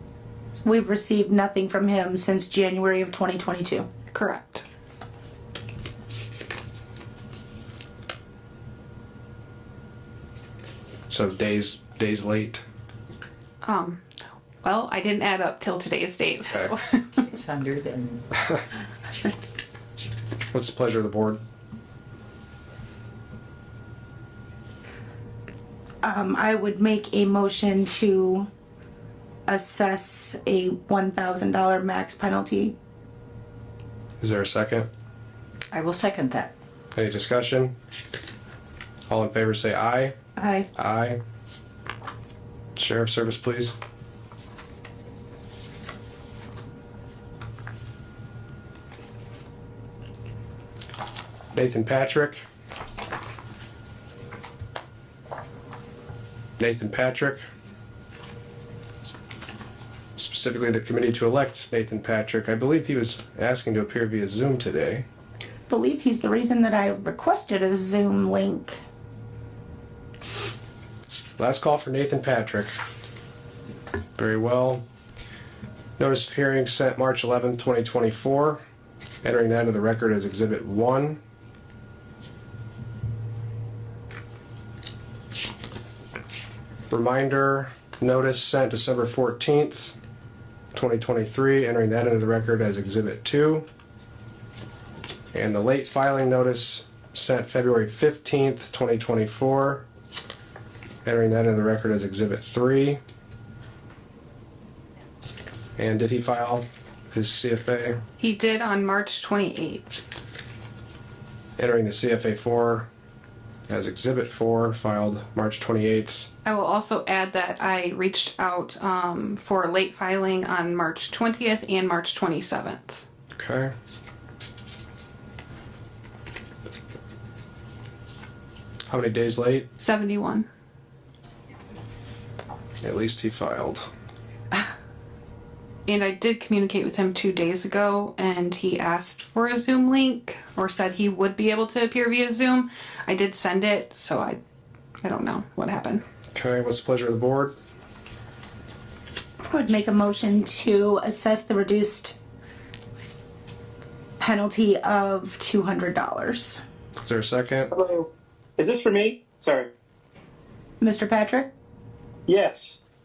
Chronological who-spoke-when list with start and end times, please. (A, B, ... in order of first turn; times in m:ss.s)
0:00.6-0:03.9 A
0:04.1-0:04.6 B
0:11.1-0:12.6 C
0:13.6-0:14.0 B
0:14.6-0:17.2 B
0:17.1-0:18.2 D
0:20.5-0:21.4 C
0:26.0-0:28.5 A
0:29.5-0:32.7 A
0:34.2-0:34.9 C
0:35.7-0:36.5 D
0:36.9-0:37.7 C
0:39.1-0:40.1 C
0:40.4-0:40.7 A
0:40.8-0:41.2 C
0:42.8-0:43.7 C
0:51.5-0:52.4 C
0:56.6-0:57.4 C
1:00.2-1:05.0 C
1:05.7-1:08.8 A
1:11.4-1:12.7 C
1:14.2-1:14.8 C
1:16.0-1:18.6 C
1:19.2-1:21.2 C
1:26.9-1:30.0 C
1:30.7-1:33.6 C
1:35.3-1:39.8 C
1:41.0-1:43.0 C
1:45.8-1:48.0 C
1:48.2-1:50.1 B
1:51.6-1:52.9 C
1:53.7-1:56.3 C
1:56.4-2:03.0 B
2:03.4-2:03.7 C
2:08.9-2:09.7 C
2:09.8-2:10.5 B
2:12.8-2:13.9 C
2:15.9-2:24.4 B
2:25.0-2:26.0 B
2:26.3-2:27.5 C
2:29.5-2:32.2 A
2:34.2-2:36.6 A
2:37.0-2:37.7 C
2:37.7-2:39.7 E
2:40.8-2:41.5 A
2:42.3-2:42.8 E